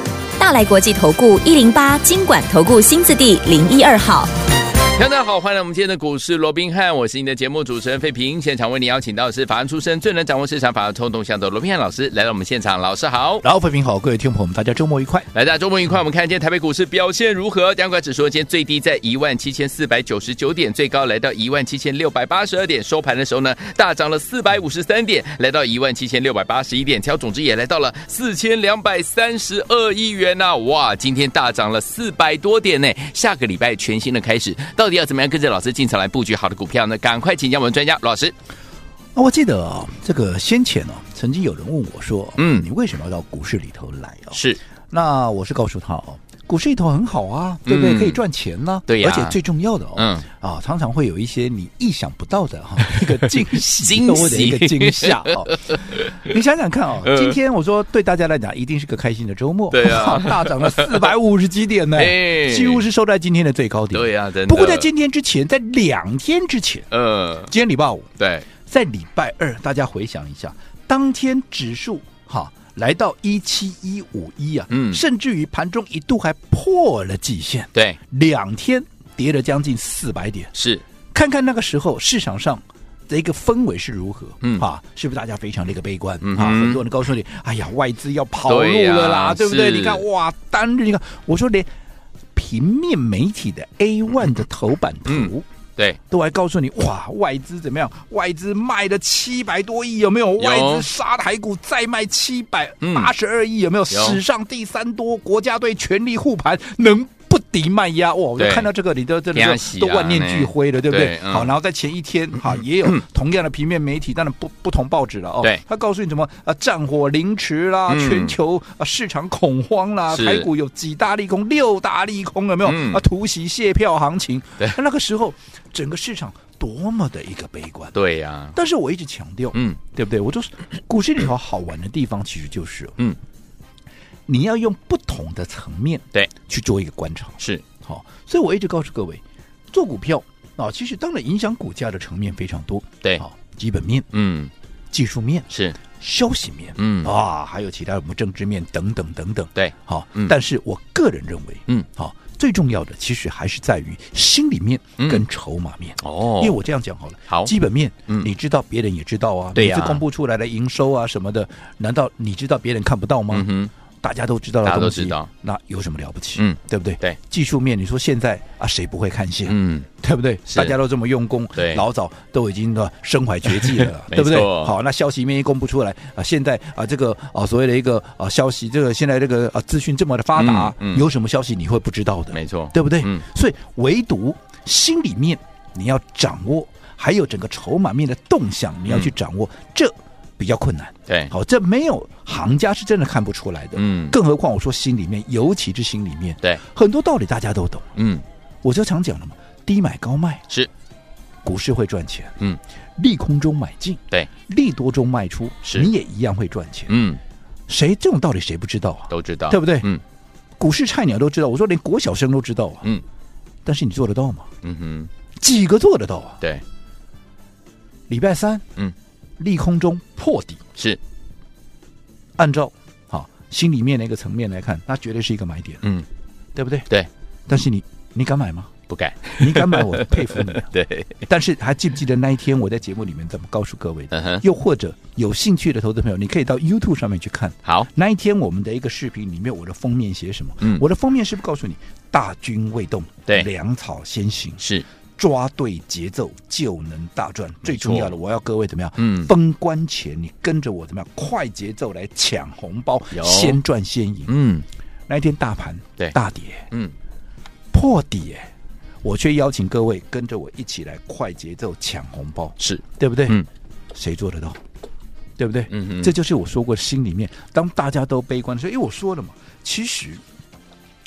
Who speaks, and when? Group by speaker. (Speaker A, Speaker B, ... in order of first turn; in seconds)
Speaker A: 0.4-4.3
Speaker B: 5.0-13.4, 15.3-38.3, 42.4-42.7, 44.3-44.6, 47.7-48.2, 48.9-49.4, 50.0-50.2, 52.9-56.1, 57.0-57.4, 59.7-61.1, 62.0-62.9, 63.9-64.9, 66.9-67.5, 68.2-68.5, 74.7-75.0, 80.5-80.8, 86.2-86.8, 88.5-90.0, 95.1-96.0, 100.4-100.9, 102.8-103.1, 103.9-104.2, 108.4-108.7, 109.3-111.5, 112.4-113.0, 117.9-118.3, 120.1-120.5, 122.6-123.0, 127.9-128.6, 129.5-129.8, 144.1-144.5, 145.5-145.8, 146.8-147.1, 149.6-150.4, 155.0-155.2, 156.0-156.6, 159.6-160.0, 163.3-163.7, 164.6-165.3, 166.4-167.2, 169.5-169.9, 171.6-171.8, 173.5-174.7, 180.4-181.1, 182.3-183.2, 188.9-189.1, 193.8-194.2, 198.0-198.2, 205.7-205.9, 206.9-207.2, 209.1-210.0, 214.6-215.1, 228.9-231.2, 234.1-234.4, 247.6-248.1, 249.0-249.3, 253.1-253.6, 254.3-254.7, 262.6-263.5, 265.7-266.1
Speaker C: 13.4-15.3, 39.1-44.4, 44.9-66.9, 67.5-68.1, 68.7-80.5, 81.1-91.7, 92.3-95.5, 96.1-128.0, 128.5-133.0, 134.3-144.1, 144.9-163.5, 164.0-197.9, 198.6-200.4, 201.4-202.4, 203.0-206.9, 207.7-209.9, 210.6-212.9, 213.7-214.5, 215.4-216.4, 218.1-218.7, 219.4-220.6, 222.4-225.8, 226.6-226.9, 227.5-228.7, 229.4-230.7, 231.2-244.7, 245.2-254.3, 255.1-256.7, 257.7-258.5, 259.0-263.4, 263.9-264.6, 265.4-270.2